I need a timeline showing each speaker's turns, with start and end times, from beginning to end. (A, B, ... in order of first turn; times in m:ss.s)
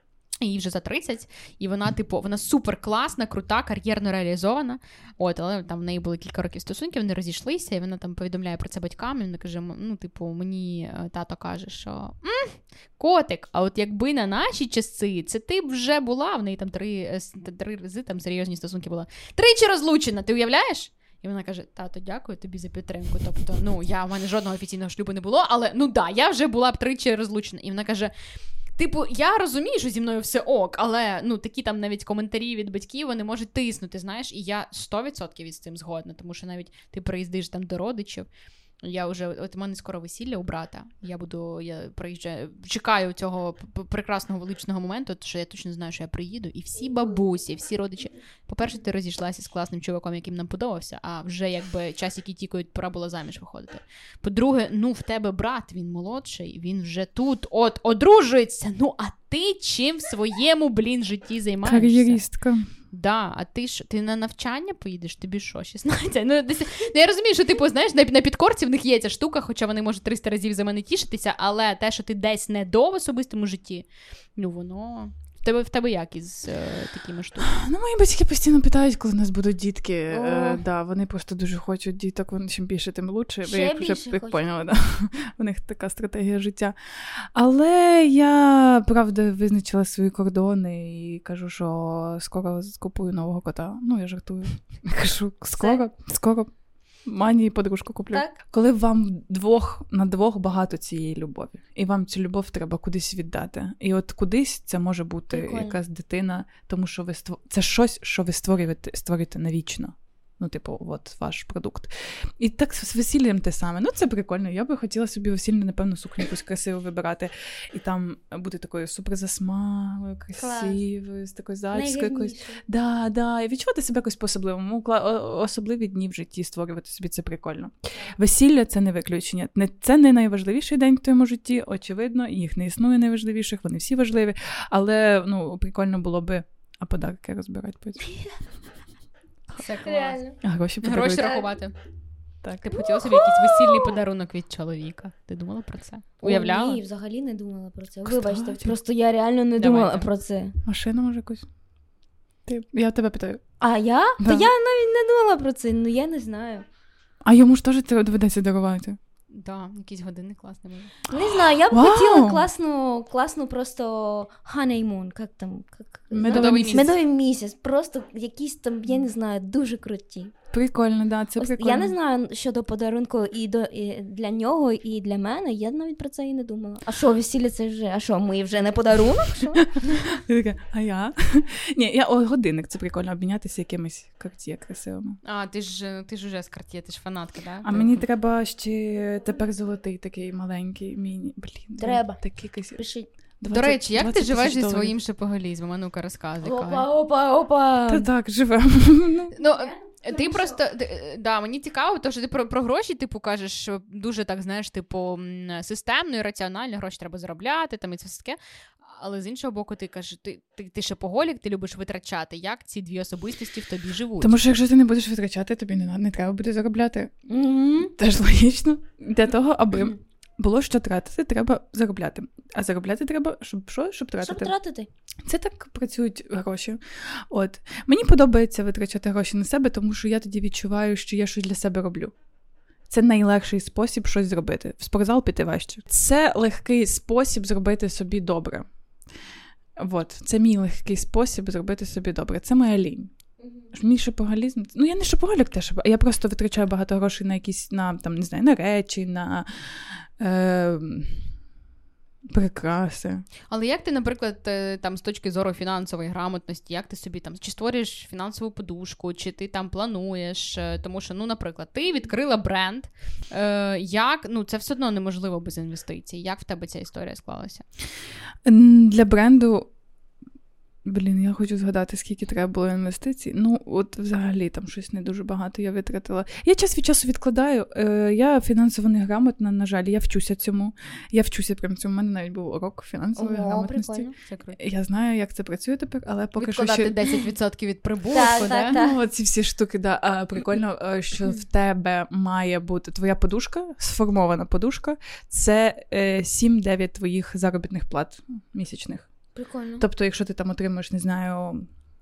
0:00.4-0:28.1 A
0:28.8-0:38.3 A
0:38.8-1:02.3 A
1:01.6-1:02.7 B
1:02.9-1:17.6 A
1:17.4-1:36.5 B
1:20.1-1:20.6 C
1:23.4-1:24.4 C
1:37.0-2:18.1 B
1:45.3-1:45.8 C
2:00.4-2:00.8 C
2:01.7-2:02.6 C
2:19.6-2:21.7 A
2:19.8-2:20.4 C
2:20.4-2:21.4 B
2:22.6-2:26.8 A
2:22.8-2:24.0 C
2:26.2-2:30.6 C
2:28.0-2:28.8 B
2:29.6-2:30.1 A
2:30.6-2:31.5 B
2:32.4-2:33.4 B
2:33.6-2:36.6 C
2:34.2-2:34.5 B
2:37.2-2:39.0 B
2:39.3-2:40.9 A
2:41.1-2:50.3 C
2:41.2-2:42.5 B
2:46.1-2:46.9 B
2:46.2-2:46.9 A
2:50.5-2:51.9 B
2:51.4-2:59.7 C
2:59.6-3:05.2 B
3:05.2-3:08.0 A
3:07.6-3:12.8 B
3:11.8-3:13.1 C
3:13.4-3:14.9 B
3:13.5-3:16.9 A
3:16.4-3:18.1 C
3:17.9-3:19.4 B
3:19.4-3:34.4 A
3:19.4-3:20.6 C
3:34.2-3:37.1 B
3:37.3-3:37.9 C
3:38.0-3:44.5 B
3:44.2-3:44.9 C
3:45.2-3:52.1 B
3:52.9-3:58.7 B
3:59.8-4:03.1 B
4:03.7-4:11.3 B
4:12.3-4:13.2 B
4:13.5-4:27.6 A
4:28.4-4:29.7 B
4:30.9-4:46.9 B
4:43.2-4:44.1 C
4:44.0-4:44.6 A
4:46.4-4:48.8 A
4:48.1-4:49.0 C
4:48.2-4:59.2 B
4:59.4-4:59.8 C
4:59.8-5:01.7 B